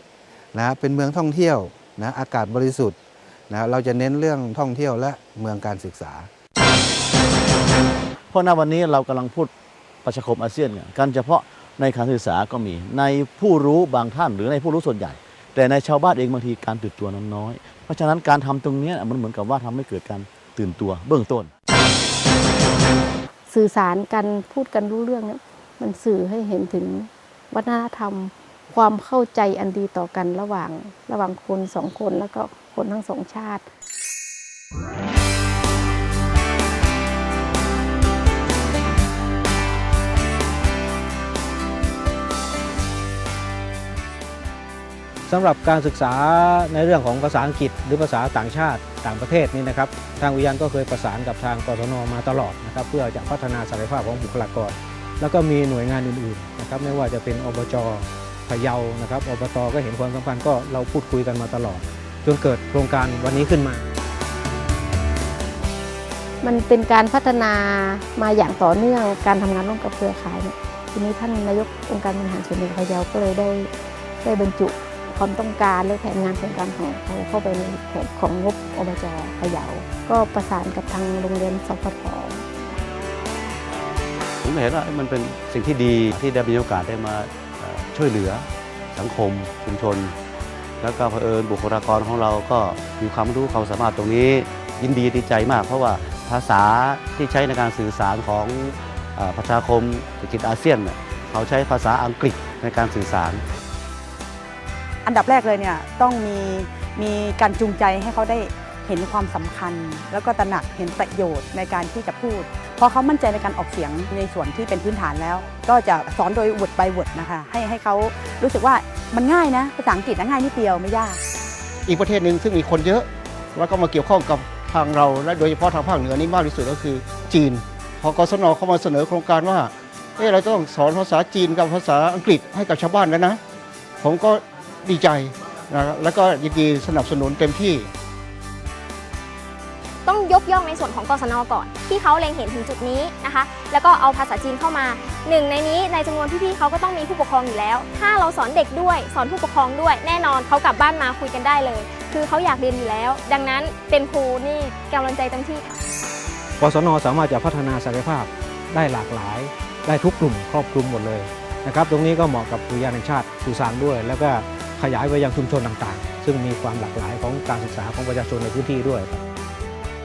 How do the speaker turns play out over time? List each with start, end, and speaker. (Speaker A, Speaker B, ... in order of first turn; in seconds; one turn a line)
Speaker A: 0.5-3.0
Speaker A: 3.5-6.3
Speaker B: 8.3-9.5
Speaker B: 10.0-21.5
Speaker C: 23.5-33.6
Speaker D: 45.3-63.8
Speaker C: 66.4-73.7
Speaker C: 74.2-82.5
Speaker E: 84.4-90.1
Speaker E: 90.8-103.4
Speaker F: 105.0-121.2
Speaker G: 121.9-133.4
Speaker G: 134.0-137.9
Speaker H: 140.0-155.8
Speaker D: 156.6-169.2